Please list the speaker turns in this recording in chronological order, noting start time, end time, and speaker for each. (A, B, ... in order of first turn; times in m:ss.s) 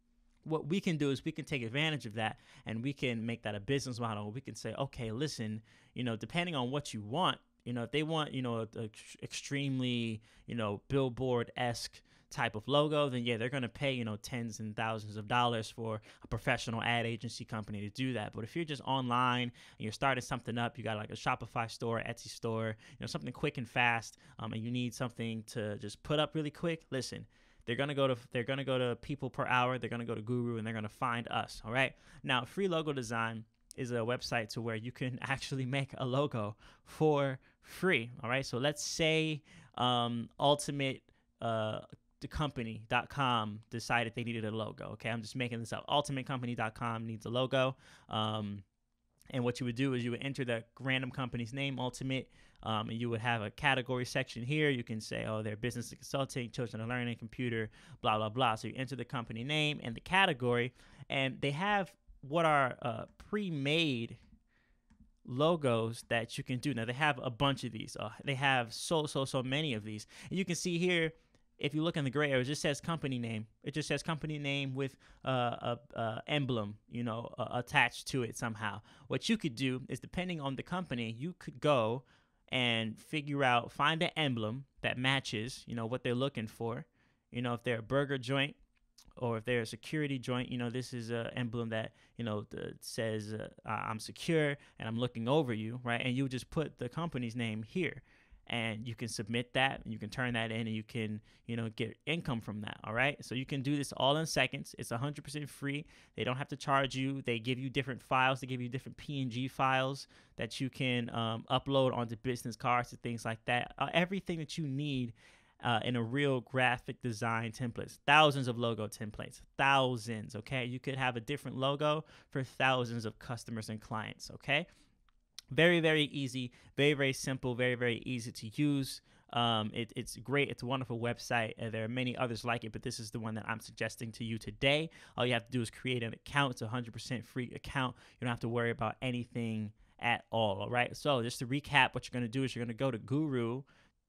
0:00.4-0:48.6 A
0:49.3-1:04.2 A
1:05.2-1:28.6 A
1:29.2-2:04.7 A
2:05.5-2:23.6 A